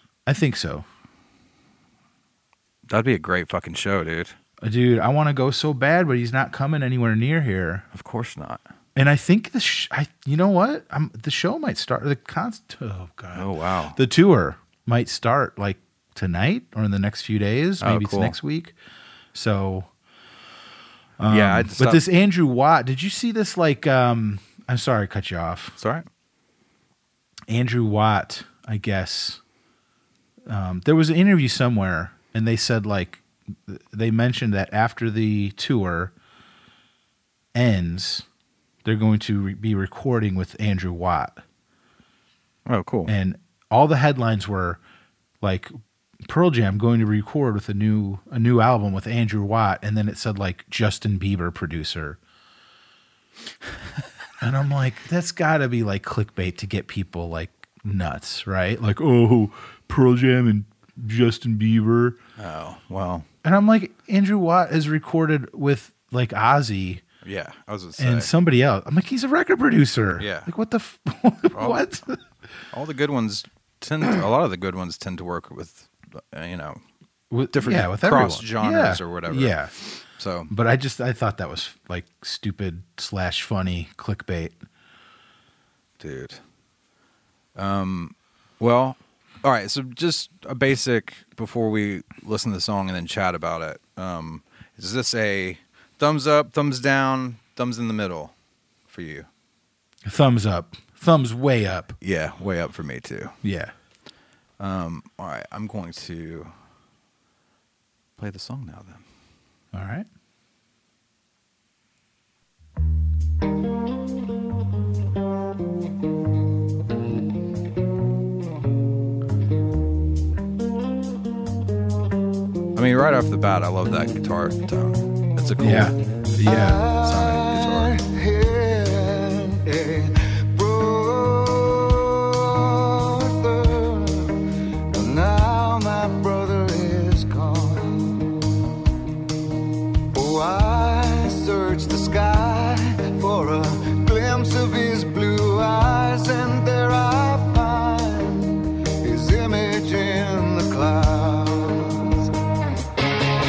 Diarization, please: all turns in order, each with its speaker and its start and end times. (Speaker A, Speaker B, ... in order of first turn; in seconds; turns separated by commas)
Speaker A: 0.3-0.8, Speaker B: 2.9-4.3, Speaker A: 4.6-7.9, Speaker B: 7.9-8.6, Speaker A: 8.9-18.8, Speaker B: 13.3-14.0, Speaker B: 17.8-18.4, Speaker A: 19.3-19.9, Speaker A: 21.2-25.8, Speaker B: 21.3-22.0, Speaker B: 25.8-26.1, Speaker A: 27.5-29.4, Speaker A: 30.5-36.1, Speaker A: 37.5-38.3, Speaker A: 38.8-41.4, Speaker B: 42.7-43.1, Speaker A: 43.1-44.8, Speaker A: 45.4-45.7, Speaker A: 46.2-52.2, Speaker A: 54.4-62.2, Speaker B: 62.4-63.3, Speaker A: 63.4-67.0, Speaker B: 67.2-68.3, Speaker A: 68.0-72.2, Speaker B: 70.2-70.5, Speaker B: 71.5-71.9, Speaker B: 72.7-76.8, Speaker A: 77.3-79.8, Speaker B: 77.5-79.6, Speaker B: 80.1-80.5, Speaker A: 80.5-84.6, Speaker B: 86.0-86.4, Speaker B: 87.6-98.3, Speaker B: 98.9-99.3, Speaker A: 100.0-102.0, Speaker B: 102.0-103.3, Speaker A: 103.4-103.7, Speaker B: 104.6-106.5, Speaker B: 108.2-109.0, Speaker A: 109.7-110.1, Speaker B: 122.8-125.9, Speaker A: 125.6-126.9, Speaker C: 126.4-138.3, Speaker B: 127.0-128.0, Speaker C: 140.1-152.3